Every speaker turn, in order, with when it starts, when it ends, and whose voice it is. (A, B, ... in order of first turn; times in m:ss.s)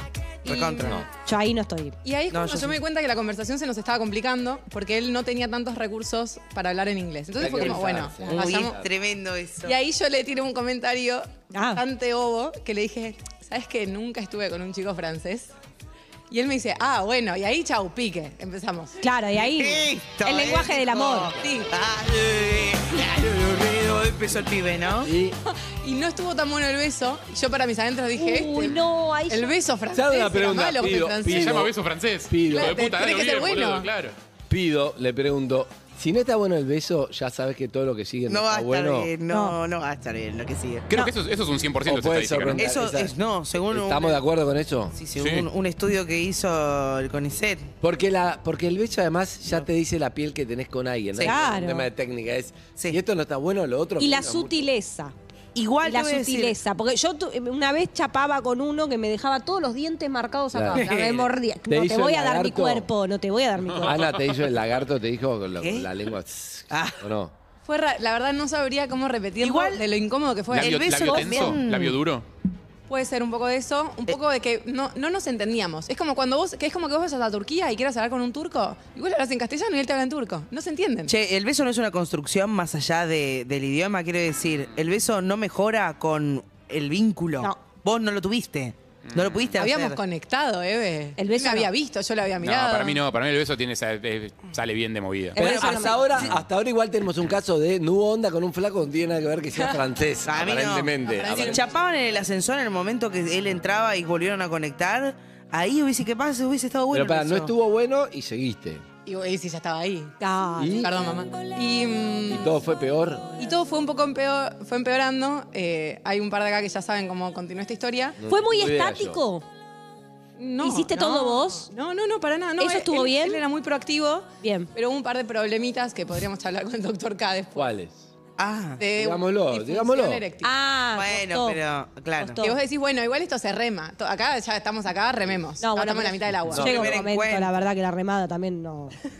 0:00.4-0:01.0 A
0:00.4-0:01.0 B
0:01.1-0:02.0 C
0:02.0-0:08.7 A
0:02.3-0:02.8 B
0:07.4-0:08.9 D
0:07.4-0:09.7 B
0:09.6-0:15.5 A
0:11.5-0:11.8 C
0:16.3-0:19.0 A
0:19.0-0:21.4 C
0:19.4-0:25.1 B
0:21.4-0:21.7 A
0:25.0-0:25.4 D
0:25.8-0:31.6 A
0:28.1-0:29.5 C
0:29.9-0:31.7 D
0:31.2-0:34.1 E
0:32.3-0:32.8 D
0:32.5-0:33.9 A
0:34.5-0:39.1 D
0:38.3-0:40.9 B
0:39.3-0:39.6 C
0:40.9-0:42.7 E
0:41.8-0:43.2 D
0:42.6-0:44.2 B
0:43.7-0:44.9 D
0:45.0-0:47.7 B
0:45.2-0:45.5 E
0:47.8-0:54.7 D
0:51.2-0:51.9 C
0:54.0-0:55.1 C
0:55.5-0:56.6 B
0:55.8-1:04.0 C
1:00.5-1:00.9 D
1:00.7-1:01.3 B
1:01.7-1:02.9 D
1:03.7-1:04.4 E
1:03.8-1:07.3 D
1:05.6-1:05.9 B
1:06.7-1:07.0 B
1:07.6-1:10.8 A
1:09.4-1:09.8 B
1:10.5-1:12.2 E
1:10.5-1:12.0 B
1:10.9-1:11.6 C
1:12.9-1:21.1 A
1:21.1-1:30.0 B
1:29.1-1:29.5 E
1:29.6-1:33.0 A
1:31.2-1:31.7 C
1:32.4-1:35.8 E
1:35.3-1:36.2 C
1:35.4-1:41.7 D
1:40.2-1:47.5 B
1:41.0-1:41.7 A
1:46.9-1:48.8 D
1:49.0-1:50.2 A
1:50.2-1:50.9 C
1:50.6-1:50.9 D
1:50.7-1:52.5 A
1:52.3-1:53.3 D
1:53.4-1:58.2 A
1:58.2-1:59.2 D
1:58.2-1:59.4 C
2:00.4-2:07.7 A
2:00.6-2:01.7 C
2:02.6-2:03.4 C
2:04.4-2:04.7 C
2:07.6-2:08.0 D
2:08.4-2:08.8 B
2:08.8-2:10.5 A
2:09.0-2:10.2 D
2:10.4-2:11.6 C
2:10.9-2:12.4 B
2:12.2-2:12.6 C
2:12.4-2:16.7 A
2:15.6-2:18.9 C
2:16.5-2:17.0 D
2:16.5-2:17.5 B